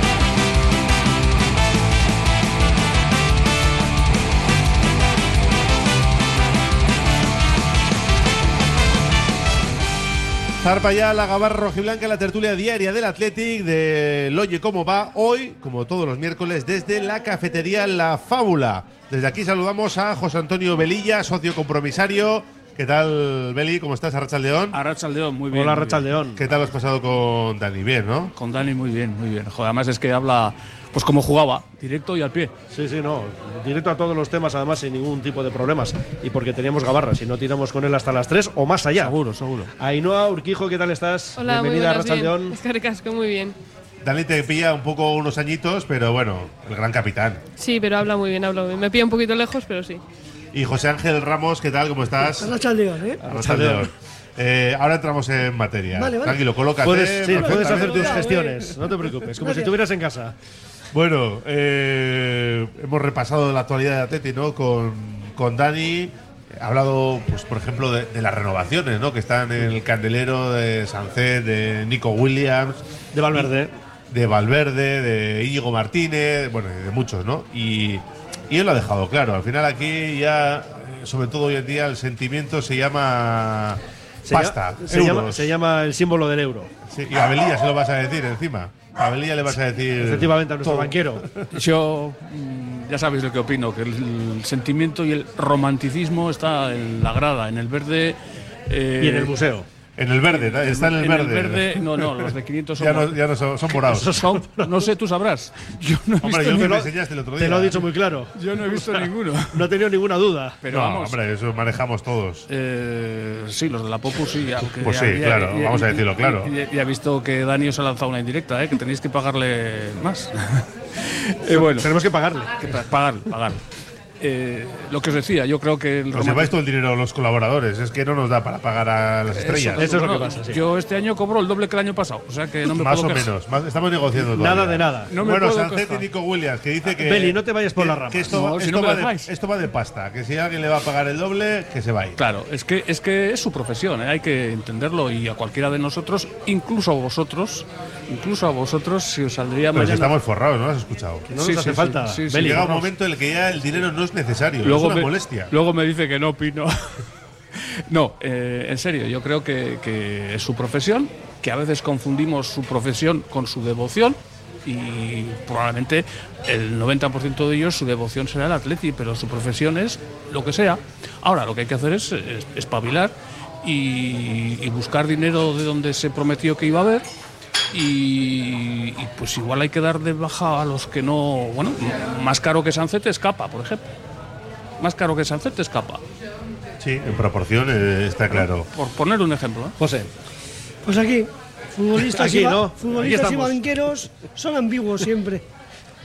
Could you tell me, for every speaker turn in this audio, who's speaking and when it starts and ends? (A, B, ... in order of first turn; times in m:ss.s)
0:10.6-0:24.8 A
0:24.7-0:26.1 B
0:25.5-0:26.5 C
0:26.4-0:28.3 A
0:28.4-0:32.5 B
0:32.7-0:39.1 C
0:39.0-0:39.7 B
0:39.8-0:42.6 C
0:41.4-0:43.6 D
0:44.0-0:47.4 A
0:47.6-0:50.0 D
0:50.5-0:52.5 A
0:52.4-0:53.2 E
0:53.2-0:53.9 C
0:53.2-0:58.7 A
0:55.9-0:56.4 E
0:56.8-1:00.3 C
0:57.3-0:58.6 E
0:59.4-0:59.7 E
1:00.9-1:12.8 A
1:13.1-1:13.7 C
1:14.1-1:25.5 A
1:24.3-1:26.7 C
1:26.9-1:31.5 A
1:29.9-1:31.3 C
1:31.5-1:39.3 B
1:39.0-1:39.7 C
1:40.0-1:41.8 A
1:40.3-1:43.2 B
1:42.8-1:44.2 A
1:43.8-1:44.9 C
1:44.0-1:46.8 B
1:46.2-1:47.8 A
1:46.4-1:50.6 C
1:48.3-1:49.7 B
1:50.6-1:51.2 B
1:50.7-1:52.4 A
1:52.5-2:01.9 B
1:54.8-1:56.5 A
2:01.5-2:02.7 C
2:02.6-2:03.6 B
2:04.2-2:06.5 B
2:06.1-2:09.9 A
2:09.3-2:13.3 B
2:09.7-2:10.6 C
2:12.6-2:22.2 A
2:14.2-2:15.1 C
2:15.1-2:16.1 B
2:16.8-2:18.4 C
2:18.3-2:19.3 B
2:22.2-2:30.1 B
2:29.7-2:31.3 A
2:31.3-2:32.8 C
2:31.4-2:32.8 B
2:32.4-2:35.5 A
2:34.6-2:37.0 B
2:37.5-2:57.0 B
2:57.7-3:03.8 B
3:04.8-3:06.0 B
3:06.8-3:08.7 A
3:08.3-3:09.8 B
3:09.8-3:10.1 C
3:10.8-3:15.4 E
3:12.0-3:13.8 C